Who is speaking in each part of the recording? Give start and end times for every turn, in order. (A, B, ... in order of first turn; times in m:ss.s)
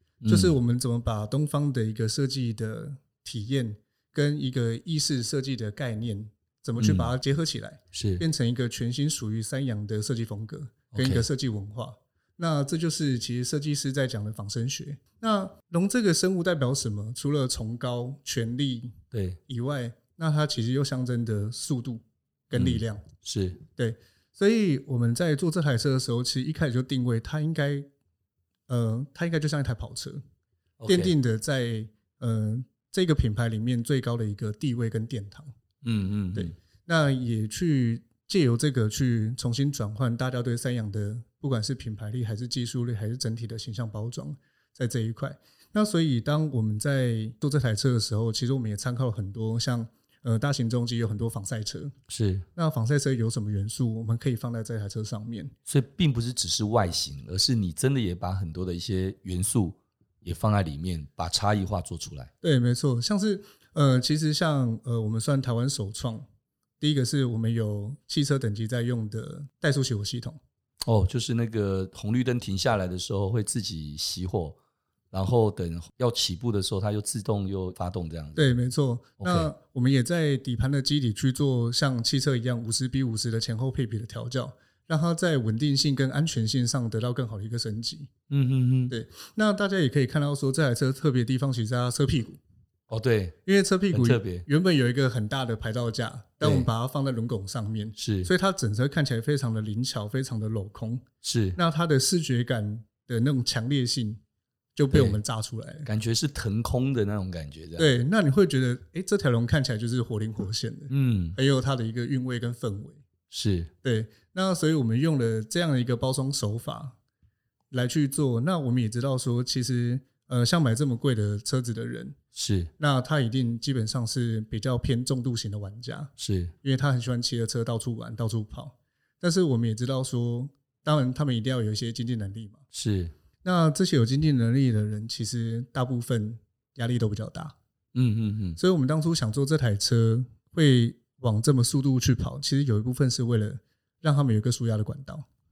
0:00.2-0:00.6 A
0:00.3-0:23.1 B
0:06.8-0:07.1 A
0:07.9-0:08.2 A
0:10.9-0:11.3 A
0:19.1-0:19.4 A
0:22.5-0:23.6 A
0:23.8-0:27.9 B
0:28.7-0:30.2 B
0:30.8-0:31.2 A
0:30.9-0:35.5 B
0:35.8-0:36.5 A
0:36.3-0:52.0 B
0:52.1-0:52.5 A
0:52.6-0:55.5 B
0:55.7-1:02.3 A
1:02.4-1:06.3 B
1:06.8-1:10.4 B
1:10.8-1:14.6 A
1:15.1-1:18.5 A
1:18.4-1:28.1 B
1:19.2-1:19.5 A
1:28.3-1:29.0 A
1:28.9-1:32.4 B
1:32.9-1:33.4 A
1:33.4-1:41.0 B
1:33.9-1:34.5 A
1:36.4-1:36.7 A
1:38.0-1:38.3 A
1:41.2-1:41.6 A
1:41.6-1:44.2 B
1:44.8-1:45.9 B
1:44.9-1:45.2 A
1:45.8-1:47.9 A
1:47.8-1:53.0 B
1:50.9-1:51.4 A
1:53.3-1:53.7 A
1:53.8-1:57.0 B
1:57.7-2:02.2 B
2:02.4-2:02.7 A
2:02.8-2:06.1 B
2:06.2-2:06.5 A
2:06.6-2:12.6 B
2:12.7-2:13.1 A
2:13.4-2:17.6 B
2:17.9-2:18.6 A
2:18.6-2:25.2 B